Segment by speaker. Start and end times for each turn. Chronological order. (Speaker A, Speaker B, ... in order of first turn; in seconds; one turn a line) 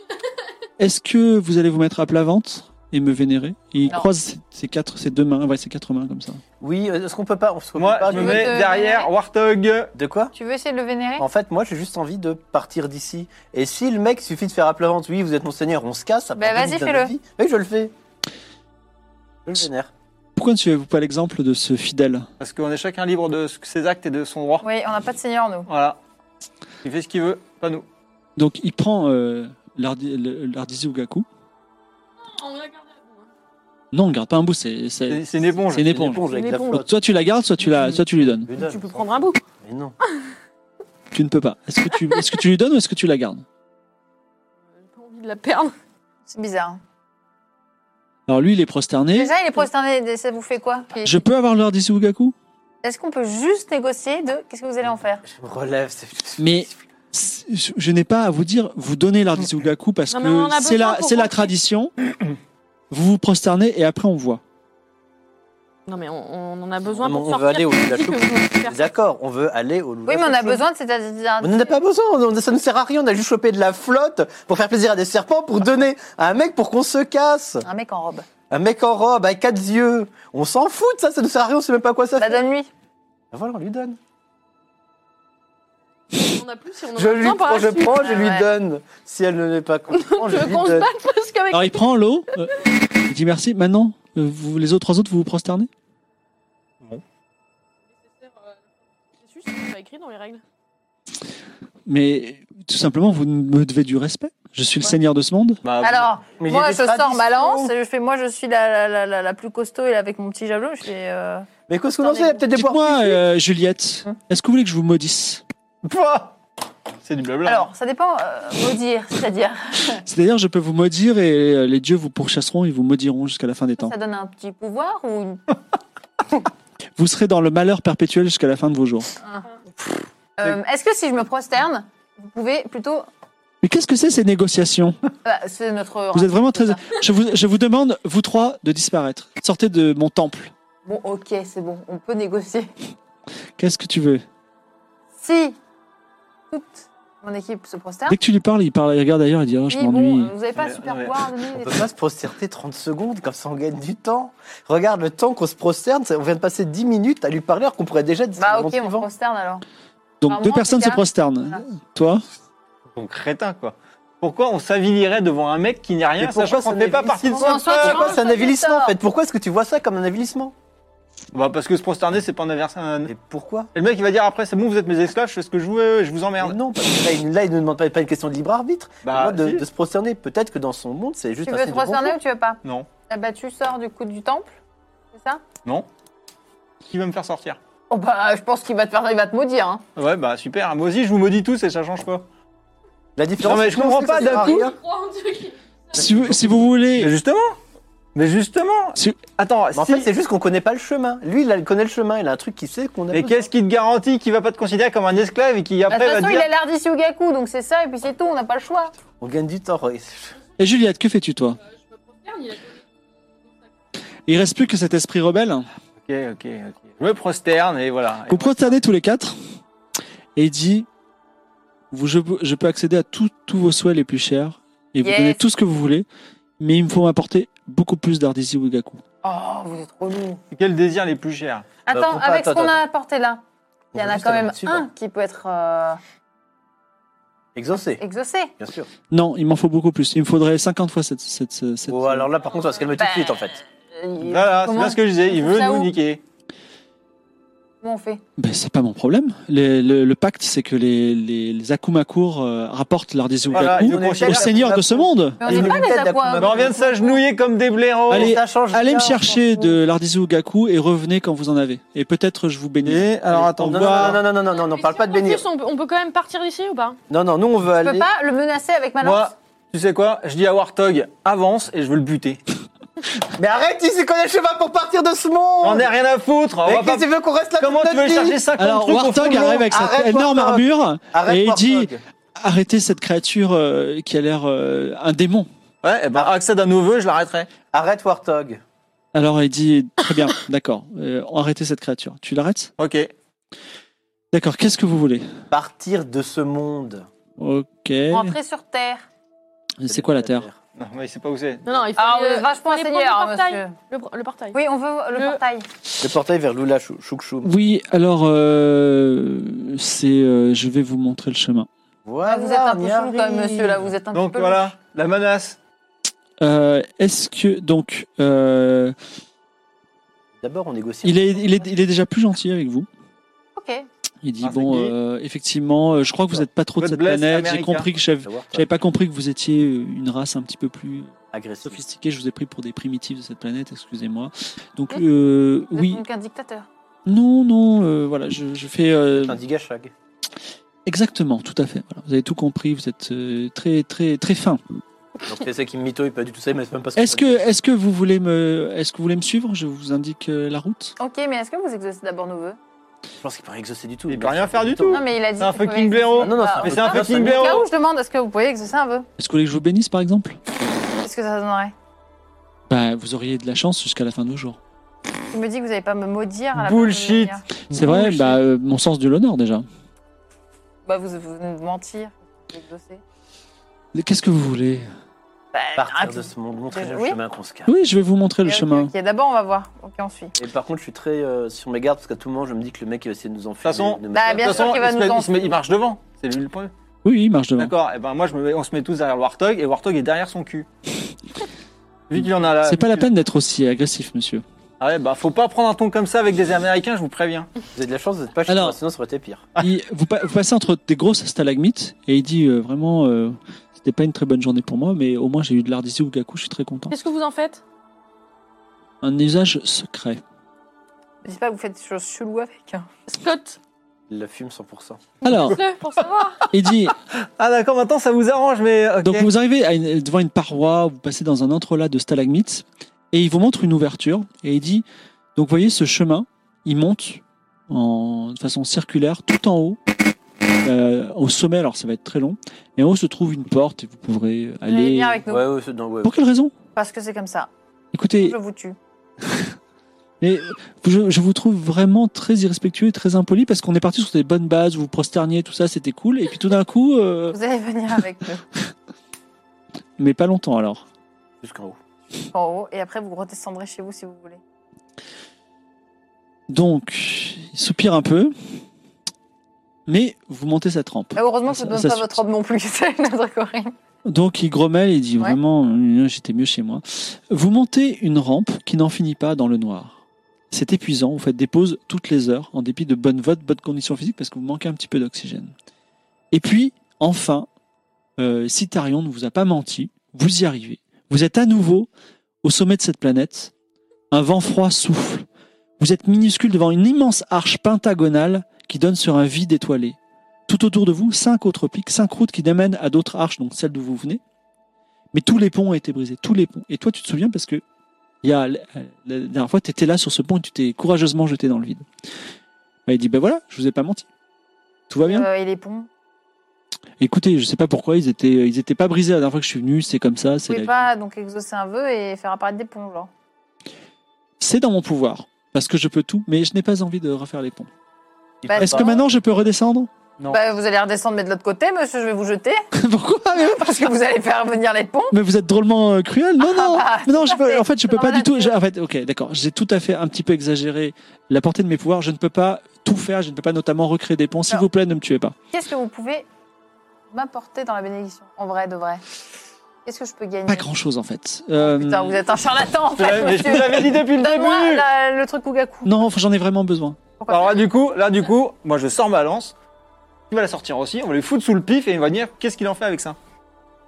Speaker A: 0.8-6.4
Speaker B: 6.6-8.6
Speaker C: 7.8-9.9
Speaker D: 8.1-9.1
Speaker B: 9.9-10.3
Speaker D: 10.3-11.3
Speaker B: 11.2-17.9
Speaker D: 16.4-17.1
Speaker B: 19.5-19.9
Speaker A: 20.4-22.3
Speaker C: 22.4-24.6
Speaker D: 24.6-25.7
Speaker C: 25.7-26.0
Speaker C: 26.8-27.9
Speaker A: 28.4-31.3
Speaker E: 32.2-33.3
Speaker A: 33.9-38.5
Speaker C: 35.1-36.0
Speaker B: 35.8-36.9
Speaker E: 36.3-36.9
Speaker B: 37.8-40.0
Speaker E: 38.6-39.4
Speaker A: 41.1-43.5
Speaker E: 44.8-45.7
Speaker D: 46.3-46.8
Speaker A: 48.3-49.3
Speaker D: 49.1-51.2
Speaker A: 51.0-52.4
Speaker D: 52.8-55.2
Speaker B: 55.2-56.7
Speaker A: 56.4-61.9
Speaker E: 60.1-61.5
Speaker A: 62.9-64.4
Speaker E: 65.9-68.9
Speaker B: 66.9-70.7
Speaker D: 70.1-71.7
Speaker B: 71.4-77.7
Speaker D: 77.6-78.3
Speaker B: 78.5-82.4
Speaker D: 82.2-82.7
Speaker B: 83.3-84.0
Speaker E: 86.1-88.2
Speaker B: 87.0-90.9
Speaker D: 88.0-88.5
Speaker E: 89.9-92.0
Speaker A: 91.5-95.7
Speaker E: 99.2-100.4
Speaker A: 101.9-105.6
Speaker C: 105.6-106.1
Speaker D: 105.8-111.5
Speaker B: 106.4-107.7
Speaker B: 111.7-113.2
Speaker D: 112.0-112.4
Speaker A: 112.5-115.4
Speaker C: 115.8-116.4
Speaker C: 117.0-117.7
Speaker D: 117.5-120.0
Speaker A: 120.0-124.0
Speaker D: 123.8-125.4
Speaker A: 127.0-129.1
Speaker D: 130.4-133.1
Speaker A: 133.6-135.0
Speaker D: 135.2-137.0
Speaker A: 136.1-140.5
Speaker D: 140.8-142.7
Speaker A: 143.6-144.2
Speaker D: 145.2-145.6
Speaker D: 146.5-148.2
Speaker A: 148.1-150.3
Speaker D: 149.7-151.9
Speaker C: 150.6-151.2
Speaker B: 151.5-159.1
Speaker D: 158.4-159.6
Speaker A: 160.2-162.2
Speaker D: 160.3-161.6
Speaker C: 162.9-168.2
Speaker B: 166.2-170.5
Speaker D: 167.3-168.9
Speaker C: 171.3-173.1
Speaker B: 173.1-173.7
Speaker C: 173.7-176.6
Speaker B: 176.4-182.2
Speaker C: 179.0-179.6
Speaker D: 181.5-184.6
Speaker C: 182.6-182.9
Speaker D: 185.1-185.4
Speaker C: 186.9-187.6
Speaker D: 187.9-189.8
Speaker C: 190.0-192.3
Speaker B: 193.2-194.8
Speaker C: 193.4-194.7
Speaker E: 194.1-195.9
Speaker A: 195.9-197.1
Speaker B: 196.2-196.6
Speaker C: 196.9-197.6
Speaker C: 198.2-200.1
Speaker B: 199.7-203.5
Speaker C: 203.1-206.5
Speaker D: 205.9-208.9
Speaker B: 209.2-210.4
Speaker A: 210.6-211.6
Speaker E: 211.9-212.8
Speaker A: 214.3-215.7
Speaker C: 216.0-218.8
Speaker A: 218.3-219.4
Speaker A: 220.4-220.9
Speaker A: 221.9-226.1
Speaker D: 225.0-225.4
Speaker A: 226.6-229.0
Speaker D: 229.2-230.4
Speaker C: 230.5-231.7
Speaker D: 231.9-233.4
Speaker B: 231.9-232.8
Speaker B: 233.9-234.9
Speaker D: 233.9-236.0
Speaker B: 237.6-238.0
Speaker D: 238.0-238.5
Speaker B: 238.6-238.9
Speaker A: 239.1-242.3
Speaker B: 241.9-243.6
Speaker D: 242.9-245.9
Speaker C: 244.2-246.2
Speaker D: 247.8-248.2
Speaker A: 248.4-255.5
Speaker B: 253.5-256.8
Speaker C: 253.5-254.8
Speaker D: 254.0-254.9
Speaker D: 255.4-257.2
Speaker C: 256.4-258.4
Speaker B: 258.1-259.4
Speaker A: 258.1-264.2
Speaker C: 262.8-264.2
Speaker B: 263.6-265.5
Speaker E: 264.5-267.0
Speaker B: 267.1-268.1
Speaker D: 267.7-269.3
Speaker C: 269.0-272.4
Speaker B: 273.4-275.9
Speaker C: 275.6-277.1
Speaker B: 276.6-278.4
Speaker C: 277.6-279.6
Speaker A: 278.6-285.5
Speaker B: 279.1-282.0
Speaker C: 285.8-287.5
Speaker B: 287.7-288.6
Speaker A: 289.1-292.7
Speaker C: 292.8-293.1
Speaker A: 294.3-295.4
Speaker B: 295.5-297.1
Speaker A: 297.4-298.4
Speaker D: 298.1-299.1
Speaker A: 299.8-300.5
Speaker B: 299.9-300.6
Speaker C: 300.8-301.7
Speaker E: 301.7-304.6
Speaker D: 302.0-303.7
Speaker D: 304.5-305.7
Speaker E: 305.1-305.4
Speaker B: 306.0-307.5
Speaker A: 307.4-311.7
Speaker B: 312.1-313.9
Speaker D: 312.2-314.7
Speaker C: 314.1-315.6
Speaker A: 316.4-318.9
Speaker B: 320.4-321.7
Speaker A: 321.0-322.9
Speaker D: 323.6-323.9
Speaker A: 324.2-336.0
Speaker C: 324.4-324.9
Speaker C: 326.8-327.9
Speaker B: 328.2-328.7
Speaker B: 331.3-331.9
Speaker D: 335.7-336.7
Speaker A: 337.1-339.4
Speaker B: 339.2-339.9
Speaker A: 340.9-344.6
Speaker B: 345.2-347.5
Speaker A: 347.0-351.0
Speaker D: 351.0-352.6
Speaker B: 353.2-355.0
Speaker C: 354.1-357.7
Speaker D: 354.9-359.1
Speaker B: 356.2-357.6
Speaker A: 359.2-360.4
Speaker D: 361.0-361.7
Speaker A: 362.7-364.6
Speaker D: 365.3-367.4
Speaker C: 366.6-368.4
Speaker A: 367.7-369.7
Speaker D: 370.9-373.0
Speaker A: 373.9-374.9
Speaker D: 375.5-377.2
Speaker B: 375.8-377.7
Speaker A: 377.7-378.9
Speaker D: 378.4-380.4
Speaker B: 380.4-384.8
Speaker C: 383.6-386.7
Speaker D: 384.1-385.6
Speaker A: 387.0-387.7
Speaker C: 387.6-390.7
Speaker C: 392.1-393.1
Speaker A: 392.6-394.4
Speaker C: 394.8-397.5
Speaker B: 397.8-399.5
Speaker A: 398.5-398.8
Speaker A: 399.6-406.9
Speaker E: 406.9-407.6
Speaker A: 409.0-410.2
Speaker D: 411.2-412.9
Speaker E: 413.1-413.6
Speaker B: 414.1-415.1
Speaker A: 415.2-415.6
Speaker E: 415.2-416.4
Speaker A: 416.5-417.0
Speaker C: 417.4-419.3
Speaker A: 419.0-424.9
Speaker A: 425.4-429.8
Speaker A: 430.6-435.2
Speaker D: 434.7-435.5
Speaker B: 435.3-436.1
Speaker A: 436.0-436.5
Speaker D: 436.8-437.5
Speaker A: 437.9-438.4
Speaker D: 438.1-438.8
Speaker A: 440.2-447.4
Speaker D: 447.3-448.4
Speaker A: 450.0-450.8
Speaker B: 451.4-451.8
Speaker D: 452.3-454.4
Speaker A: 456.5-458.4
Speaker A: 459.9-462.2
Speaker D: 461.1-463.7
Speaker A: 464.1-470.0
Speaker A: 470.5-475.5
Speaker A: 476.3-477.5
Speaker A: 478.2-481.9
Speaker A: 482.4-483.5
Speaker A: 484.1-485.3
Speaker A: 485.8-490.0
Speaker A: 490.5-494.2
Speaker A: 495.1-497.6
Speaker A: 498.2-501.9
Speaker A: 502.9-504.1
Speaker A: 504.9-505.3
Speaker D: 505.1-505.9
Speaker A: 507.0-510.9
Speaker D: 510.5-513.1
Speaker A: 514.4-517.7
Speaker B: 518.4-518.9
Speaker D: 518.5-519.0
Speaker A: 518.5-519.9
Speaker D: 520.3-522.6
Speaker A: 522.7-523.6
Speaker D: 523.4-525.1
Speaker A: 525.1-535.4
Speaker D: 526.4-528.6
Speaker D: 535.5-536.3
Speaker D: 537.1-539.0
Speaker D: 539.9-540.7
Speaker A: 540.5-542.2
Speaker D: 541.6-546.0
Speaker C: 542.9-544.9
Speaker A: 545.9-547.0
Speaker D: 547.2-547.6
Speaker C: 547.3-549.5
Speaker C: 550.3-553.2